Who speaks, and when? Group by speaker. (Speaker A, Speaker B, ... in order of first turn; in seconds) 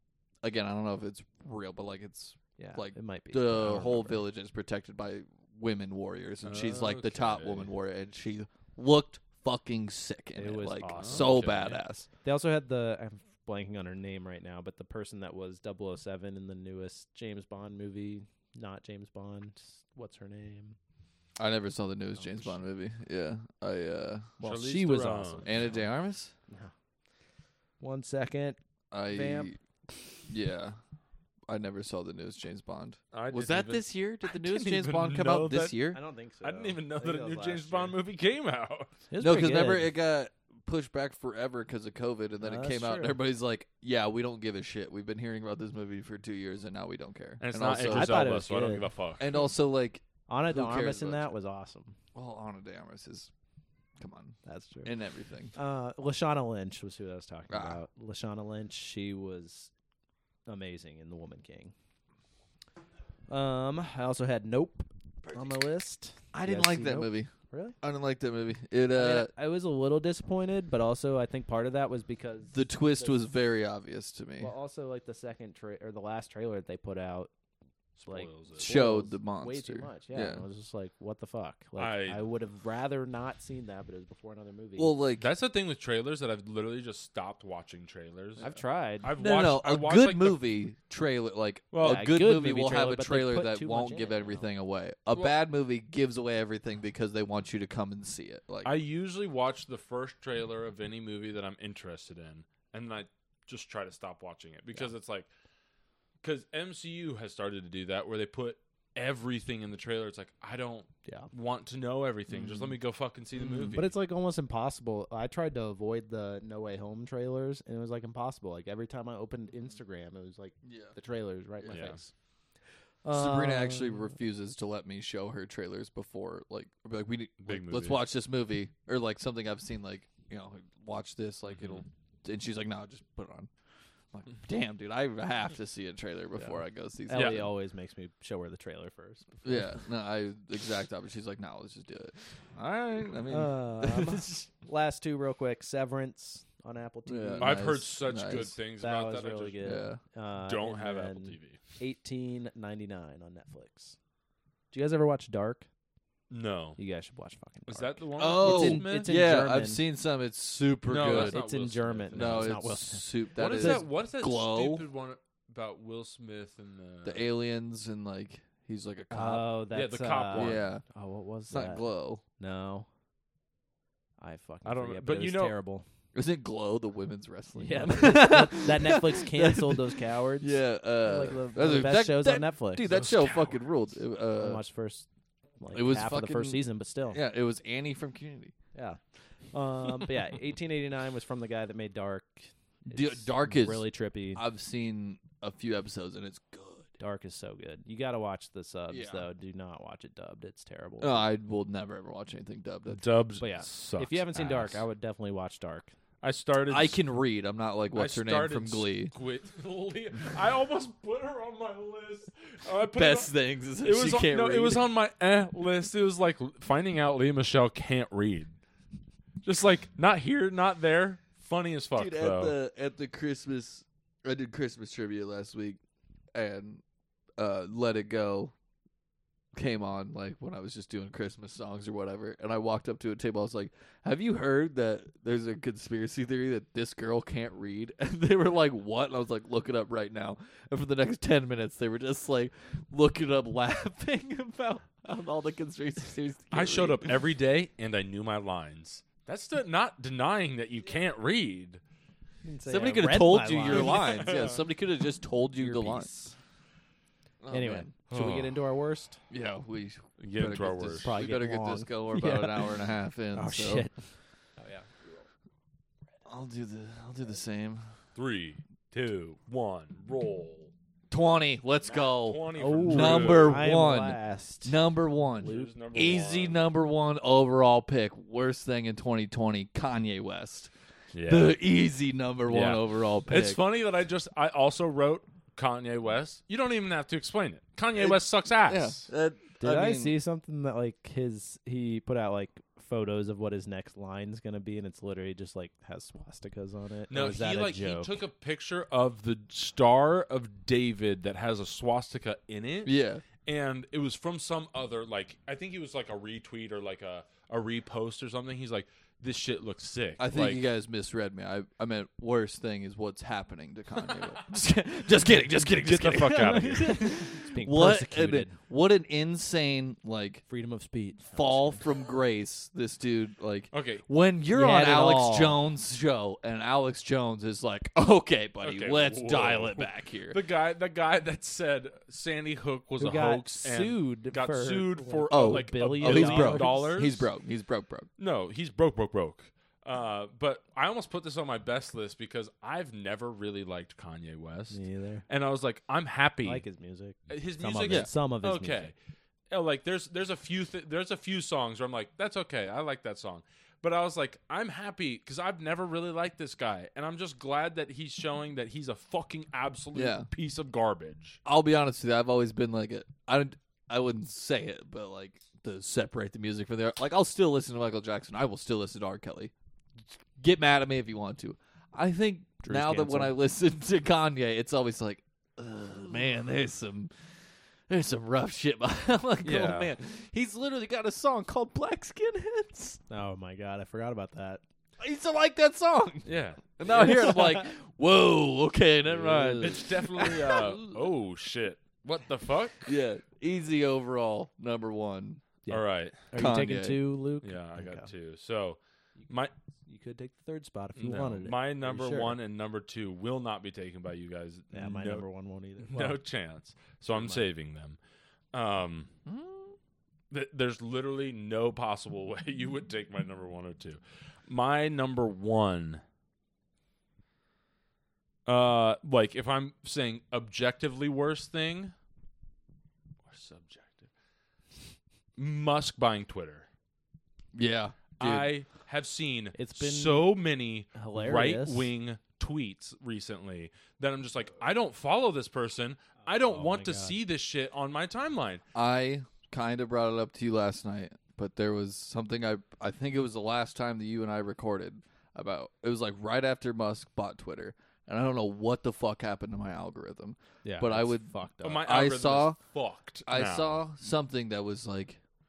Speaker A: 0.4-12.1, 21.4-24.3, 25.4-26.3, 28.9-29.6, 30.3-30.8, 31.5-36.0, 39.2-48.3, 49.2-51.3, 52.1-53.3, 54.0-55.5, 57.5-57.8, 66.3-67.3, 67.8-69.3, 72.5-74.5, 78.6-80.4, 84.8-85.3, 89.1-98.7, 120.6-120.9, 123.1-133.5, 134.1-137.5, 139.4-144.4, 147.1-148.5, 149.6-150.0, 158.2-161.4, 162.1-164.9, 167.0-169.5, 170.3-170.8, 171.5-172.2, 176.1-184.6, 185.7-188.5, 192.9-196.9, 198.9-199.2, 201.0-203.0, 206.7-209.1, 212.9-214.8, 221.9-225.8, 226.3-226.8, 227.4-228.5, 229.5-247.2, 252.7-256.1, 257.4-258.4, 259.3-263.9, 266.2-267.8, 271.1-280.7, 281.2-283.6, 287.9-290.1, 302.8-303.2, 310.2-320.4, 321.3-330.4, 335.3-338.1, 359.9-360.3, 361.4-369.5, 370.4-377.1, 377.9-383.0, 385.0-391.0, 392.9-395.4, 396.3-397.0, 409.2-409.7, 427.5-428.5, 438.7-452.6, 453.2-455.2
Speaker B: 2.6-4.2, 10.3-11.4, 12.2-20.8, 22.1-22.6, 24.4-25.8, 27.8-29.5, 35.9-38.0, 39.1-39.9, 42.4-43.2, 47.9-48.9, 50.3-52.0, 54.4-54.9, 55.5-59.7, 60.5-61.7, 63.3-67.8, 68.9-73.2, 74.4-77.3, 78.1-84.9, 88.4-89.1, 91.8-94.5, 112.3-112.7, 113.7-122.1, 123.0-124.1, 136.4-139.8, 143.3-147.6, 148.8-153.9, 154.7-155.7, 156.8-159.8, 161.1-163.8, 169.1-171.8, 172.4-172.9, 174.2-175.8, 177.6-183.0, 184.4-185.1, 185.6-187.2, 188.7-189.0, 189.5-194.4, 197.0-201.2, 203.4-205.9, 252.4-254.3, 255.6-256.3, 257.5-259.2, 261.0-262.8, 263.3-264.0, 264.6-264.9, 272.5-274.8, 275.4-275.7, 289.6-298.1, 316.6-318.6, 320.5-321.8, 324.5-325.6, 333.0-337.0, 344.7-345.2, 346.4-348.9, 372.6-373.4, 383.1-384.6, 389.1-389.8, 395.6-398.1, 399.9-402.4, 404.7-406.2, 407.1-407.4, 429.6-430.3, 430.9-431.9, 436.4-437.2, 450.6-451.8
Speaker C: 6.4-7.7, 10.9-11.8, 24.4-25.7, 33.1-35.8, 36.4-38.9, 47.4-49.4, 78.0-78.8, 81.8-82.2, 85.2-88.5, 89.0-90.4, 91.7-92.0, 98.6-105.3, 106.2-113.9, 121.7-122.0, 127.4-128.0, 131.5-131.8, 137.1-137.4, 147.4-149.7, 150.4-151.6, 156.3-156.8, 157.7-159.1, 160.9-162.6, 163.3-167.3, 169.7-170.6, 174.6-175.6, 182.8-183.6, 202.9-204.8, 206.2-207.0, 207.9-218.5, 219.4-222.6, 246.5-251.8, 253.7-254.6, 258.1-258.5, 260.2-261.1, 268.1-270.7, 271.8-273.6, 275.4-276.7, 281.1-281.6, 282.5-289.1, 297.1-310.6, 315.6-317.1, 323.7-324.0, 328.6-337.3, 338.2-346.6, 347.3-348.9, 349.5-361.4, 379.4-379.9, 386.2-387.1, 389.5-392.9, 395.7-396.2, 397.4-399.5, 400.9-405.2, 405.8-408.0, 408.5-409.1, 410.3-416.0, 418.4-421.9, 423.2-424.1, 425.4-426.7, 428.2-438.6, 451.6-453.8